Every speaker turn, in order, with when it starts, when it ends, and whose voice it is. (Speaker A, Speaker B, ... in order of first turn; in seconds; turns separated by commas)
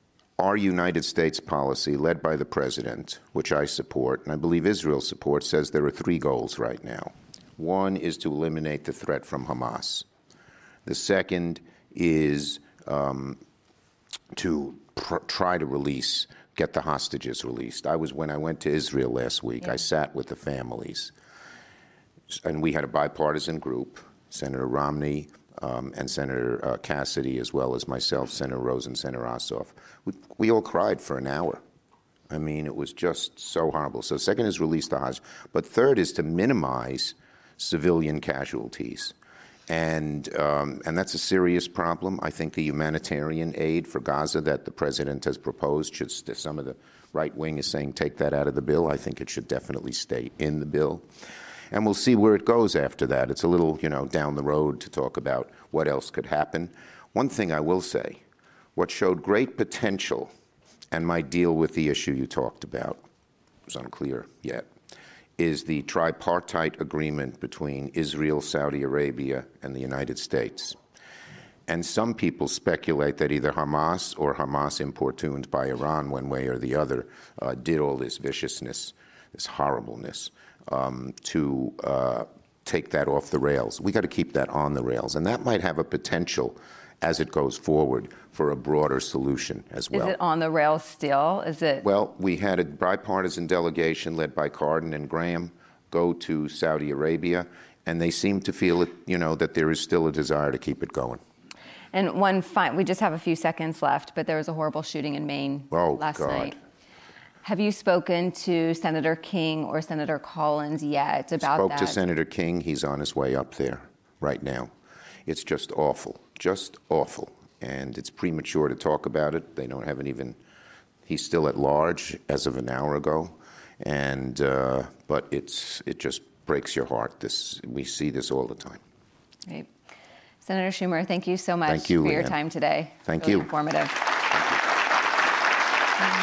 Speaker A: 0.4-10.1, Speaker A: 10.8-13.4, Speaker A: 14.3-21.1, Speaker A: 22.3-31.6, Speaker A: 32.3-39.1, Speaker A: 39.7-51.0, Speaker A: 51.7-58.2, Speaker A: 58.8-60.3, Speaker A: 60.9-63.0, Speaker A: 63.7-64.7, Speaker A: 65.4-70.8, Speaker A: 71.7-90.2, Speaker B: 89.9-91.8, Speaker A: 91.8-101.2, Speaker B: 101.9-106.6, Speaker A: 105.7-106.5, Speaker B: 107.4-112.0, Speaker A: 111.4-114.7, Speaker A: 115.2-120.4, Speaker A: 121.0-128.8, Speaker B: 130.4-134.1, Speaker A: 131.7-132.4, Speaker A: 133.1-133.5